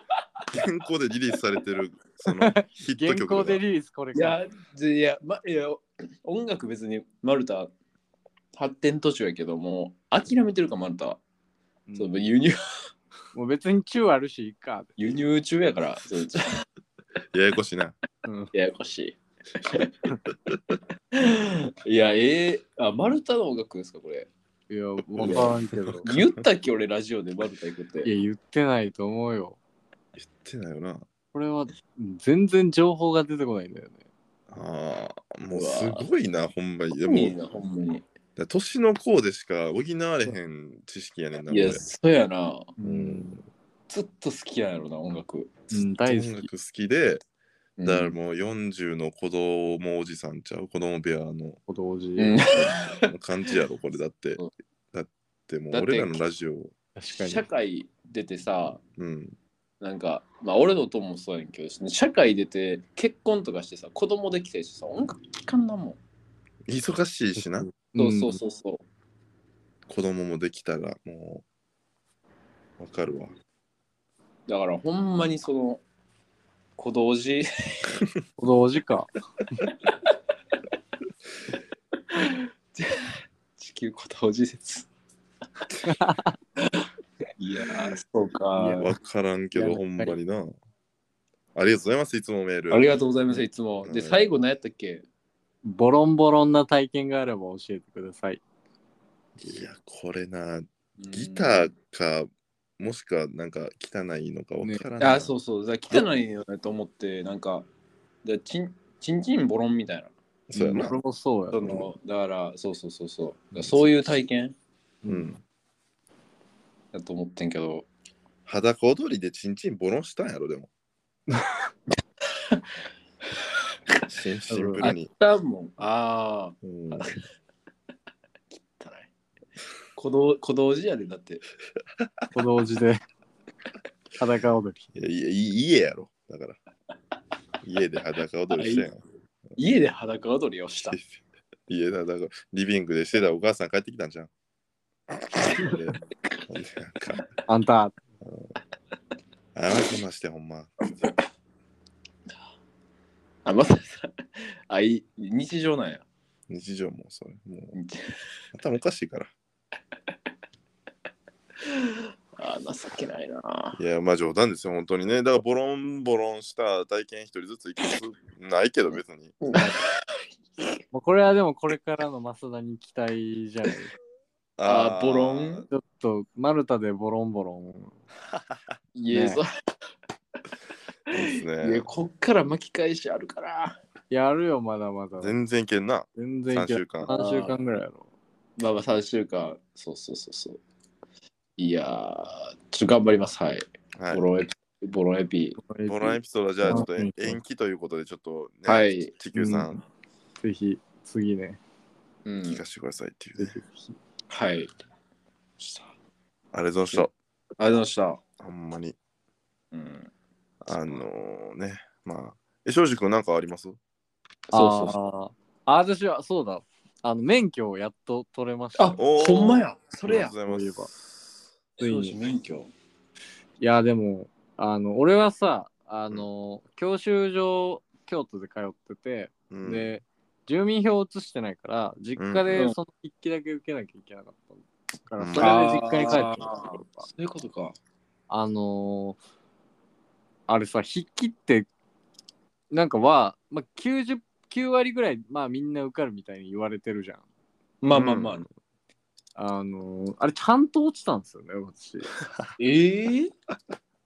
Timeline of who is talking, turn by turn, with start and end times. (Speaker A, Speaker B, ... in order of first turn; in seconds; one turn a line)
Speaker A: 0.5-3.6
Speaker B: 2.2-4.4
Speaker C: 4.1-7.7
Speaker C: 8.6-11.2
Speaker C: 12.0-12.6
Speaker B: 13.3-14.9
Speaker C: 15.0-16.6
Speaker A: 17.3-17.9
Speaker B: 18.2-18.5
Speaker C: 18.5-19.9
Speaker C: 21.1-24.3
Speaker B: 24.7-26.1
Speaker A: 25.2-26.3
Speaker C: 25.2-28.1
Speaker B: 28.0-29.6
Speaker A: 30.2-31.1
Speaker B: 31.3-34.0
Speaker A: 34.5-37.4
Speaker C: 35.5-36.1
Speaker C: 37.0-38.0
Speaker A: 38.4-41.8
Speaker C: 41.5-43.2
Speaker A: 42.8-43.4
Speaker C: 43.9-45.7
Speaker B: 45.7-46.5
Speaker A: 46.0-47.2
Speaker C: 47.8-48.1
Speaker A: 47.8-51.6
Speaker B: 51.7-52.5
Speaker C: 52.2-53.1
Speaker A: 52.6-54.4
Speaker A: 54.9-56.7
Speaker C: 55.7-56.2
Speaker B: 57.0-57.4
Speaker C: 57.2-58.8
Speaker A: 59.0-59.4
Speaker C: 59.8-66.0
Speaker A: 66.7-67.7
Speaker B: 67.4-68.4
Speaker C: 68.0-68.8
Speaker A: 69.9-71.4
Speaker A: 72.8-73.3
Speaker C: 74.5-75.8
Speaker C: 76.8-78.0
Speaker B: 78.4-79.6
Speaker C: 82.1-84.9
Speaker B: 85.8-86.3
Speaker C: 87.4-88.9
Speaker B: 88.5-88.9
Speaker A: 88.8-90.5
Speaker B: 89.5-90.1
Speaker A: 91.5-93.0
Speaker C: 92.7-95.0
Speaker A: 93.8-94.2
Speaker B: 95.6-98.4
Speaker A: 99.4-102.3
Speaker C: 101.0-101.7
Speaker A: 102.8-105.3
Speaker C: 105.0-107.7
Speaker C: 108.2-110.9
Speaker A: 110.5-111.0
Speaker B: 110.7-111.8
Speaker C: 111.5-114.5
Speaker A: 111.6-111.8
Speaker B: 115.0-115.3
Speaker A: 115.0-115.4
Speaker C: 116.9-117.8
Speaker A: 118.5-120.7
Speaker A: 124.1-125.1
Speaker B: 124.5-124.9
Speaker C: 124.8-127.2
Speaker A: 126.6-127.1
Speaker C: 128.5-129.1
Speaker C: 129.9-131.4
Speaker A: 132.0-132.2
Speaker B: 132.3-133.0
Speaker B: 134.2-134.9
Speaker A: 134.9-136.6
Speaker A: 137.6-139.0
Speaker C: 138.5-138.9
Speaker C: 139.6-141.0
Speaker A: 140.8-144.3
Speaker A: 145.4-147.2
Speaker B: 147.5-148.0
Speaker A: 148.2-148.5
Speaker A: 149.5-151.0
Speaker C: 153.4-154.1
Speaker C: 154.7-156.0
Speaker A: 156.5-157.7
Speaker C: 157.7-158.2
Speaker A: 158.5-159.3
Speaker C: 161.6-163.8
Speaker A: 163.8-169.4
Speaker C: 169.4-170.2
Speaker B: 170.9-173.9
Speaker A: 174.6-175.7
Speaker C: 174.6-175.7
Speaker B: 175.7-177.9
Speaker A: 178.3-178.6
Speaker C: 178.9-179.4
Speaker B: 179.1-179.4
Speaker C: 181.1-183.8
Speaker A: 181.1-181.8
Speaker B: 184.1-185.4
Speaker A: 185.2-187.1
Speaker B: 186.2-188.1
Speaker C: 187.1-187.6
Speaker C: 188.6-190.6
Speaker C: 191.6-195.6
Speaker A: 194.0-194.2
Speaker B: 195.6-197.4
Speaker A: 195.9-199.8
Speaker C: 198.7-199.1
Speaker B: 199.3-199.7
Speaker B: 200.4-201.6
Speaker C: 202.2-202.6
Speaker A: 202.5-203.6
Speaker B: 203.4-203.9
Speaker C: 204.3-204.7
Speaker A: 206.5-207.1
Speaker C: 207.6-208.2
Speaker A: 208.4-209.0
Speaker C: 209.7-210.1
Speaker A: 210.6-213.8
Speaker C: 214.5-214.9
Speaker B: 214.5-219.0
Speaker C: 218.8-220.3
Speaker A: 219.0-221.3
Speaker B: 220.4-220.9
Speaker C: 221.8-222.7
Speaker B: 221.8-222.2
Speaker B: 223.6-237.1
Speaker A: 229.5-229.9
Speaker A: 232.2-232.6
Speaker A: 235.2-236.2
Speaker C: 235.4-237.8
Speaker B: 238.3-239.2
Speaker B: 240.5-241.7
Speaker B: 242.7-247.2
Speaker C: 247.8-248.4
Speaker A: 247.9-248.4
Speaker B: 249.3-252.1
Speaker A: 252.2-252.5
Speaker C: 252.6-253.3